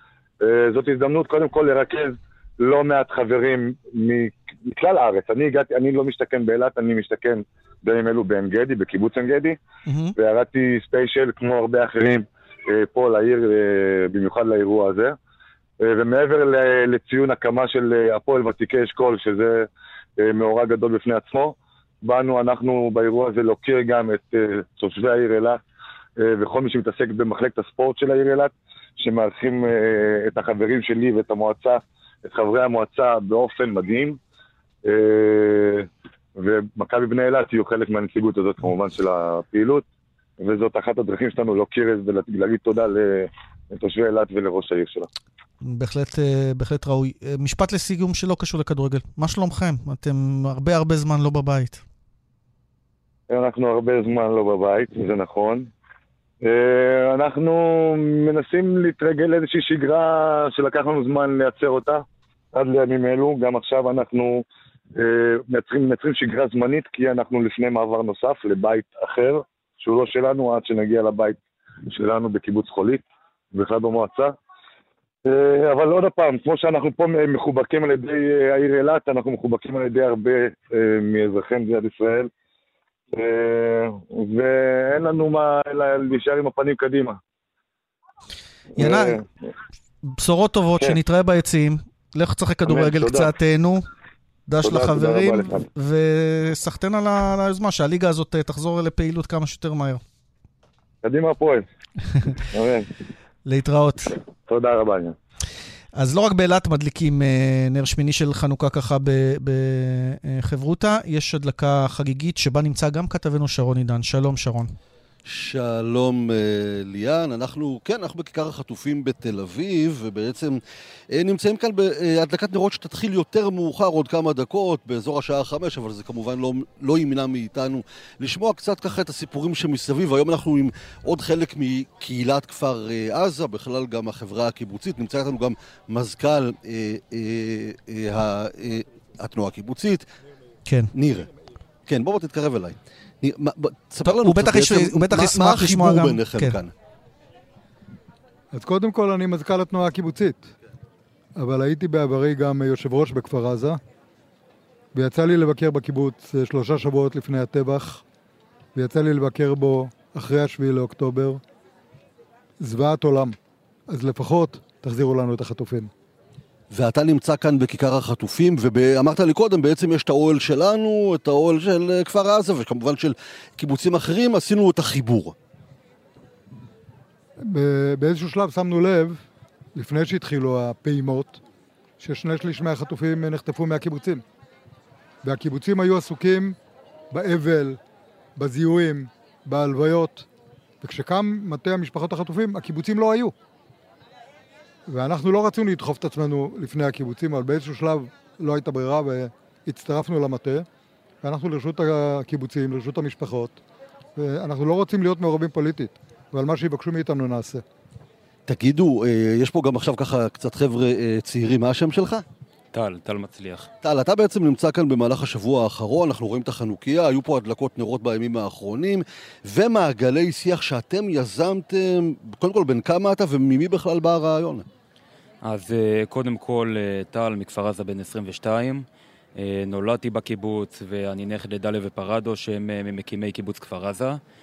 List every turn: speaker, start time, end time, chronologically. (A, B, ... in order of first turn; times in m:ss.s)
0:00.4-0:09.6 A
0:09.9-0:10.1 B
0:10.2-0:15.2 A
0:15.8-0:19.7 A
0:20.2-0:25.6 A
0:26.2-0:34.2 A
0:34.9-0:39.8 A
0:40.4-0:45.1 A
0:45.6-0:51.8 B
0:53.3-0:55.7 A
0:56.4-1:04.4 A
1:05.0-1:11.4 A
1:11.9-1:13.0 A
1:13.5-1:14.4 A
1:15.3-1:22.3 A
1:23.1-1:27.2 A
1:28.8-1:29.2 A
1:28.8-1:29.2 B
1:30.1-1:33.8 B
1:32.6-1:33.3 A
1:34.5-1:40.0 B
1:34.6-1:35.6 A
1:41.0-1:41.6 A
1:42.5-1:42.9 A
1:43.5-1:44.1 B
1:44.5-1:45.2 A
1:46.0-1:54.7 B
1:55.3-2:00.6 C
2:01.2-2:20.0 C
2:20.7-2:20.9 B
2:21.0-2:21.3 C
2:21.9-2:26.7 C
2:24.0-2:26.6 B
2:28.5-2:30.5 D
2:31.4-2:33.8 D
2:34.9-2:38.0 D
2:38.8-2:41.4 D
2:42.6-2:43.4 D
2:43.9-2:45.9 D
2:46.7-2:55.4 C
2:57.4-2:59.2 D
2:59.8-3:01.4 D
3:02.0-3:04.2 D
3:05.2-3:06.6 D
3:07.1-3:07.8 D
3:08.4-3:10.3 D
3:10.8-3:13.3 D
3:14.9-3:20.7 D
3:21.2-3:23.6 D
3:24.2-3:27.6 D
3:28.5-3:32.2 C
3:32.7-3:33.7 E
3:33.8-3:44.6 C
3:45.4-3:48.8 E
3:49.4-3:54.2 E